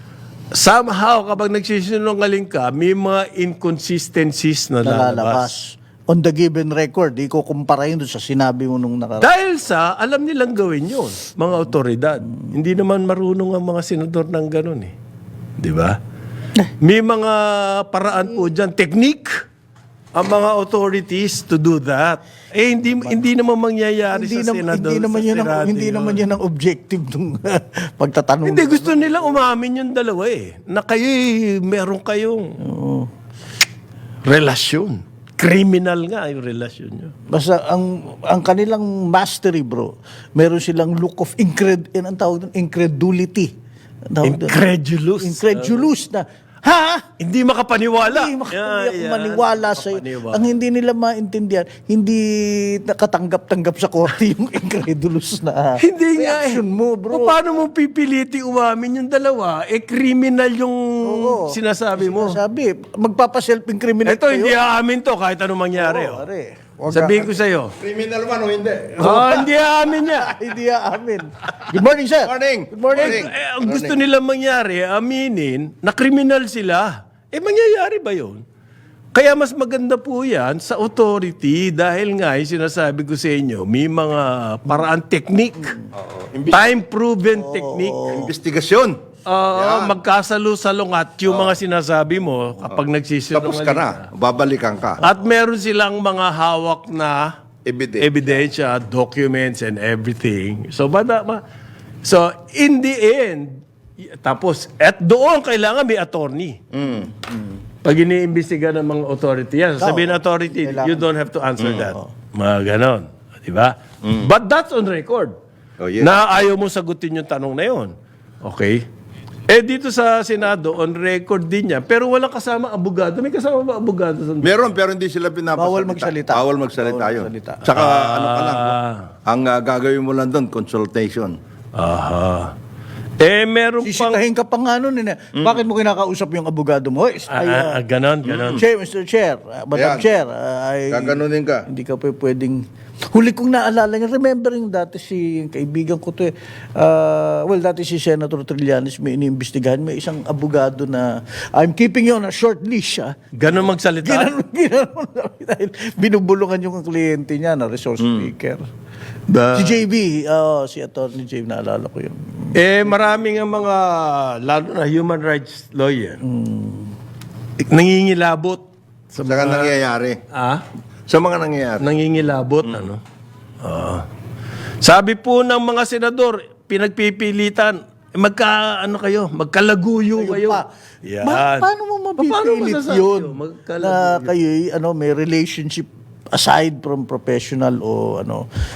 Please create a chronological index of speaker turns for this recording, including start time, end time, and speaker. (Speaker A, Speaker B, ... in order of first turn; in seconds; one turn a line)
Speaker A: 0.5-5.5
Speaker B: 4.8-9.3
Speaker A: 9.2-14.9
Speaker A: 15.6-16.0
Speaker A: 16.8-19.4
Speaker A: 20.1-26.2
Speaker B: 22.9-23.2
Speaker B: 24.1-29.4
Speaker A: 28.4-32.6
Speaker B: 32.6-33.1
Speaker A: 34.2-37.1
Speaker B: 37.3-43.5
Speaker B: 44.1-44.6
Speaker A: 44.2-45.9
Speaker B: 45.2-47.0
Speaker A: 47.2-50.5
Speaker B: 48.0-57.4
Speaker A: 55.8-62.4
Speaker B: 61.0-64.6
Speaker A: 64.0-66.2
Speaker B: 65.7-67.4
Speaker A: 66.9-67.7
Speaker C: 67.8-69.3
Speaker A: 69.0-70.4
Speaker B: 69.0-73.3
Speaker C: 72.2-74.0
Speaker A: 72.9-78.4
Speaker A: 79.1-85.8
Speaker C: 85.9-86.8
Speaker A: 86.5-88.2
Speaker B: 87.3-88.3
Speaker C: 88.1-89.0
Speaker A: 89.2-94.0
Speaker C: 89.5-90.0
Speaker C: 91.3-91.5
Speaker C: 93.3-95.0
Speaker A: 95.0-97.3
Speaker C: 97.6-98.3
Speaker A: 98.0-101.4
Speaker A: 102.0-106.6
Speaker C: 106.7-107.1
Speaker B: 106.9-107.5
Speaker A: 107.8-115.3
Speaker B: 109.8-111.1
Speaker C: 111.6-111.9
Speaker B: 111.8-112.0
Speaker C: 115.8-116.4
Speaker A: 116.0-118.8
Speaker A: 119.5-124.5
Speaker C: 124.4-131.4
Speaker B: 125.5-127.6
Speaker A: 127.7-129.1
Speaker A: 131.8-132.5
Speaker A: 133.2-134.2
Speaker B: 133.8-137.8
Speaker C: 135.3-135.6
Speaker A: 137.3-138.6
Speaker C: 138.2-138.6
Speaker B: 138.5-142.6
Speaker C: 139.7-140.1
Speaker C: 140.9-141.7
Speaker B: 143.1-158.6
Speaker A: 153.4-154.3
Speaker C: 158.0-158.3
Speaker A: 159.3-159.8
Speaker B: 159.5-162.9
Speaker A: 162.5-166.2
Speaker B: 166.2-166.9
Speaker A: 167.6-169.7
Speaker C: 169.2-170.2
Speaker A: 170.3-170.6
Speaker C: 171.1-171.9
Speaker A: 171.8-173.0
Speaker C: 172.6-172.9
Speaker A: 173.6-174.0
Speaker A: 174.8-184.3
Speaker B: 180.2-180.6
Speaker B: 181.2-188.4